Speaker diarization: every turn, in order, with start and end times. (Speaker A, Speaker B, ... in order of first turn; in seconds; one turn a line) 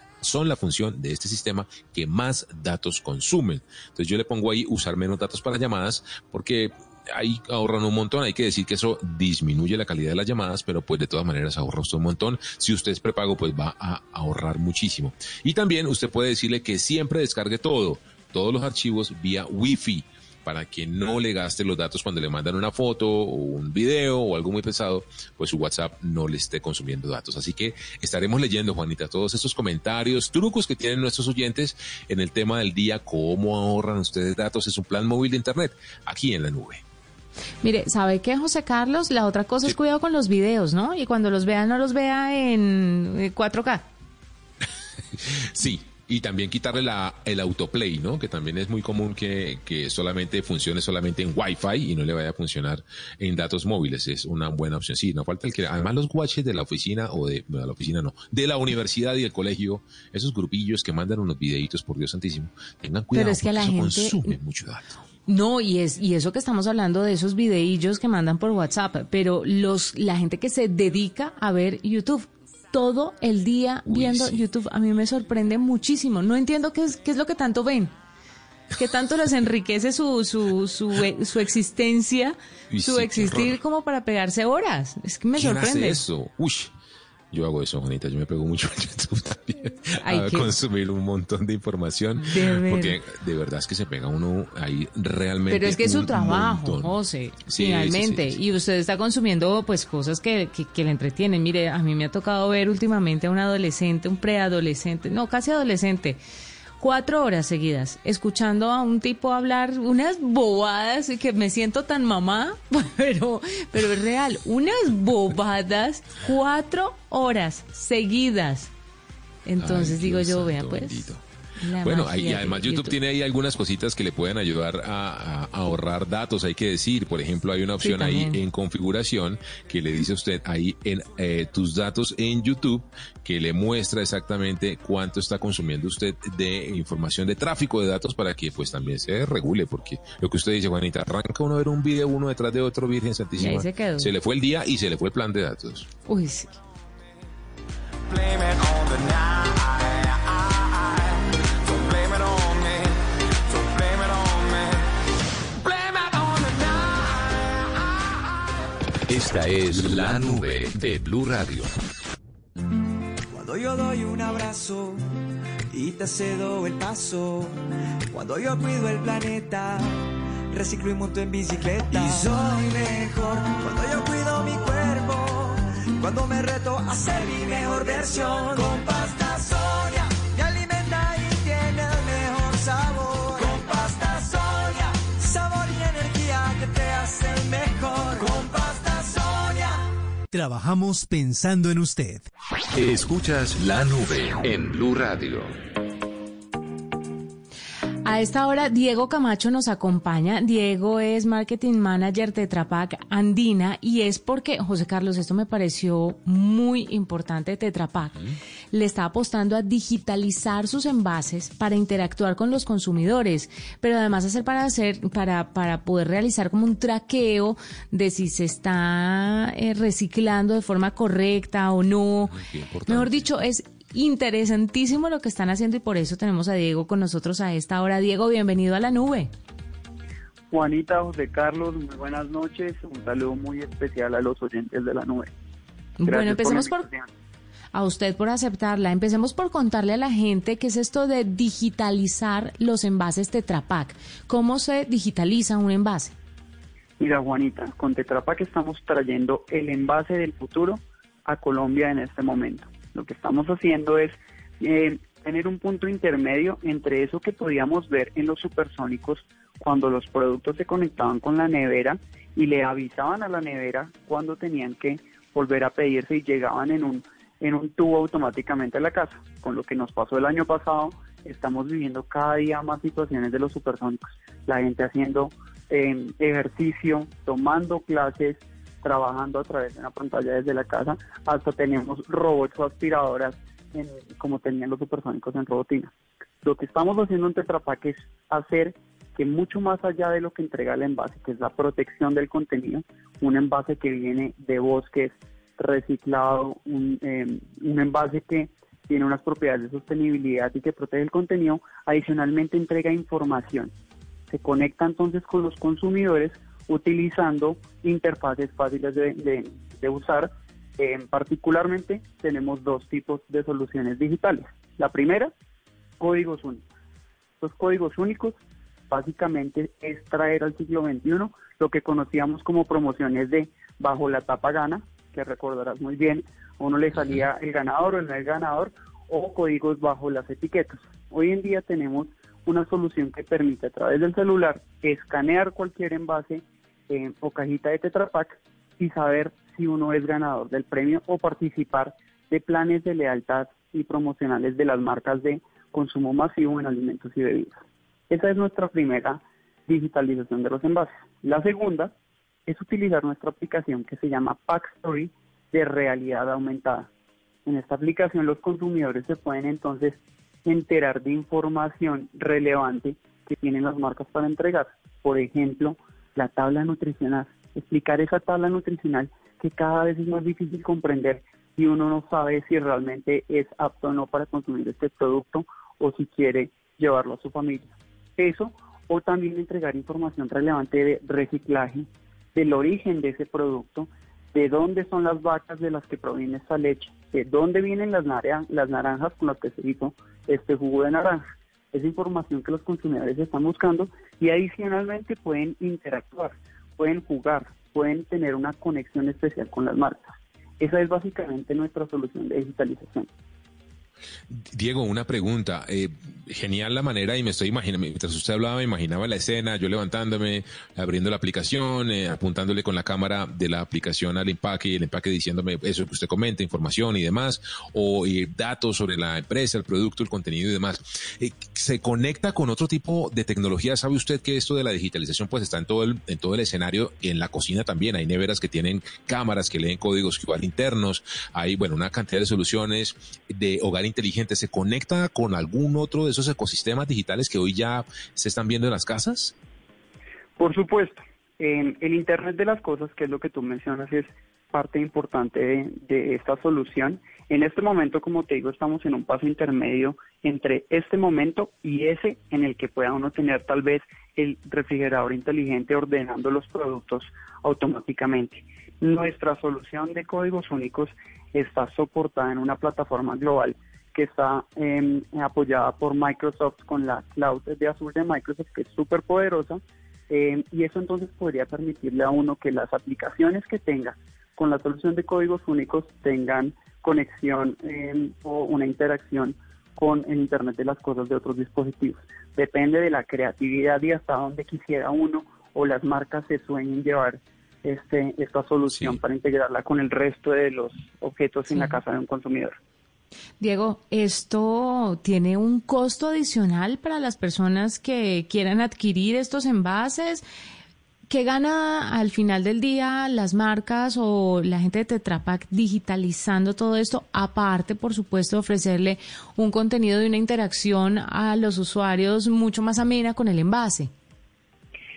Speaker A: 0.2-36.8
Speaker B: 37.6-43.9
Speaker A: 45.1-65.0
Speaker B: 63.1-64.3
Speaker B: 65.3-77.9
Speaker A: 73.8-74.4
Speaker B: 78.7-86.0
Speaker A: 82.7-83.6
Speaker A: 85.3-86.7
Speaker A: 87.3-98.4
Speaker B: 90.0-90.5
Speaker B: 92.2-93.0
Speaker B: 95.5-106.2
Speaker B: 106.8-118.7
Speaker B: 119.5-121.1
Speaker A: 119.6-121.2
Speaker B: 121.6-123.0
Speaker A: 121.8-145.9
Speaker B: 127.8-128.4
Speaker B: 143.3-144.1
Speaker B: 146.1-146.6
Speaker C: 148.3-148.9
Speaker C: 151.8-152.7
Speaker C: 153.7-154.2
Speaker C: 155.6-157.1
Speaker D: 159.1-161.7
Speaker C: 163.4-164.9
Speaker C: 165.8-166.2
Speaker C: 166.8-167.5
Speaker C: 168.1-169.7
Speaker C: 170.6-175.5
Speaker C: 176.0-189.7
Speaker E: 190.3-192.2
Speaker D: 192.7-195.6
Speaker B: 198.0-208.2
Speaker B: 208.7-229.3
Speaker A: 222.2-223.3
Speaker F: 230.5-235.3
Speaker B: 236.0-236.9
Speaker F: 236.1-237.1
Speaker B: 237.7-246.1
Speaker F: 247.0-285.9
Speaker F: 286.4-303.7
Speaker F: 304.3-315.3
Speaker F: 316.0-316.6
Speaker F: 317.4-318.4
Speaker F: 318.9-347.5
Speaker F: 348.1-351.9
Speaker F: 352.5-356.9
Speaker F: 357.4-400.0
Speaker F: 400.6-403.1
Speaker A: 404.3-439.3
Speaker F: 440.4-492.6
Speaker B: 493.4-500.2
Speaker B: 501.1-513.9